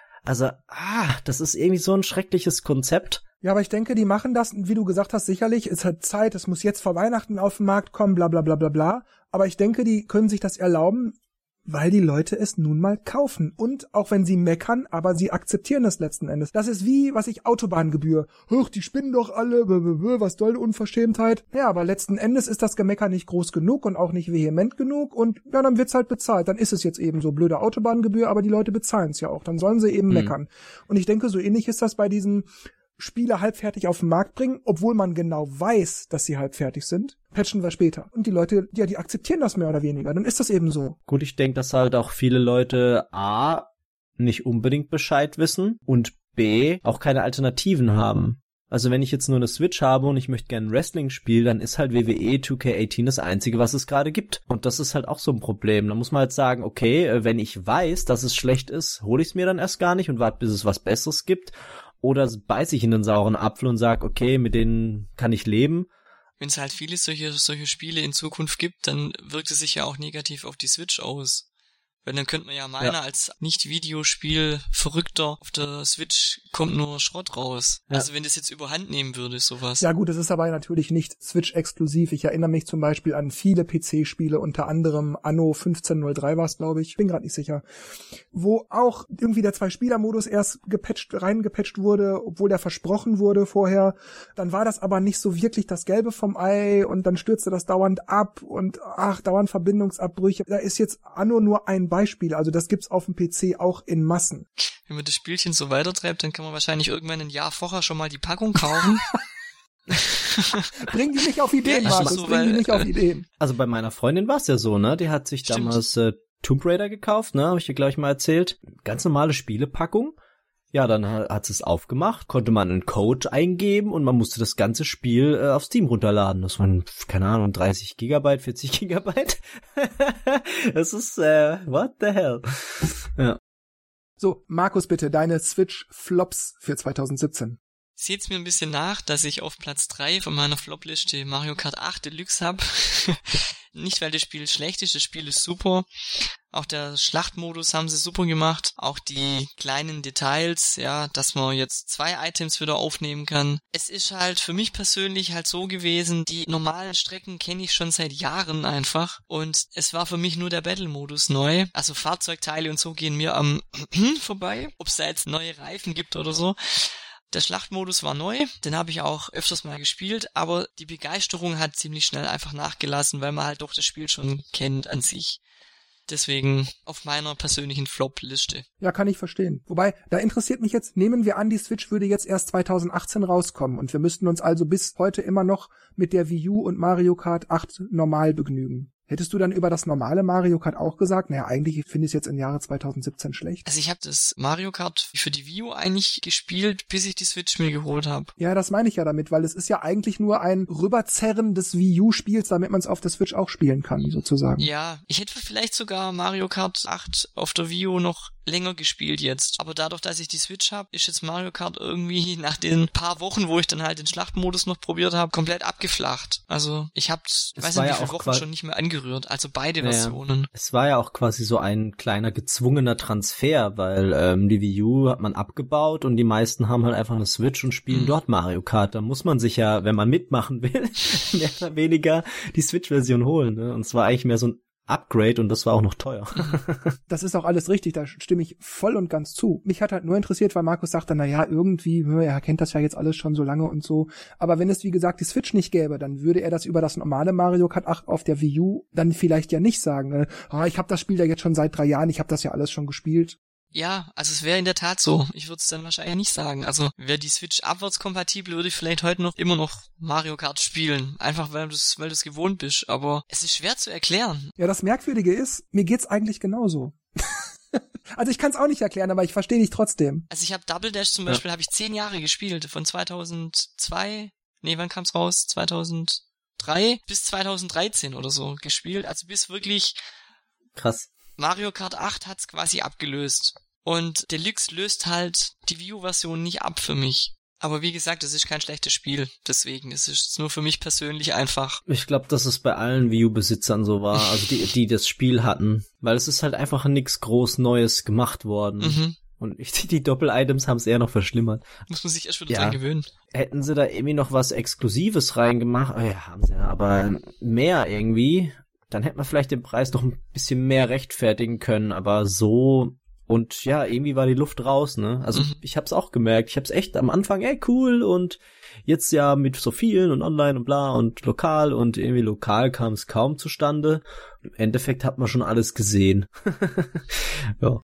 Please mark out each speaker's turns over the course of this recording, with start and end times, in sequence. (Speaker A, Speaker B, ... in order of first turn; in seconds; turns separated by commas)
Speaker A: 0.2-3.2, Speaker B: 3.4-41.0, Speaker A: 41.1-65.9, Speaker C: 66.4-71.4, Speaker C: 72.0-79.8, Speaker B: 79.8-87.6, Speaker B: 88.3-104.5, Speaker C: 104.9-109.1, Speaker C: 109.9-110.9, Speaker B: 110.7-113.2, Speaker C: 111.6-112.9, Speaker A: 111.8-112.2, Speaker A: 113.4-120.1, Speaker C: 115.5-115.7, Speaker A: 120.7-133.4, Speaker B: 134.2-137.6, Speaker C: 138.0-175.4, Speaker C: 176.1-178.7, Speaker B: 178.8-193.7, Speaker C: 193.7-198.3, Speaker B: 198.4-204.7, Speaker C: 204.6-220.5, Speaker A: 217.6-218.4, Speaker A: 219.8-236.9, Speaker C: 227.9-228.2, Speaker B: 237.1-253.4, Speaker C: 253.7-264.5, Speaker B: 264.6-270.2, Speaker C: 270.3-279.9, Speaker A: 280.7-281.1, Speaker C: 281.4-291.8, Speaker A: 291.9-301.7, Speaker C: 298.8-299.2, Speaker C: 301.9-303.1, Speaker A: 302.5-302.8, Speaker A: 303.3-327.8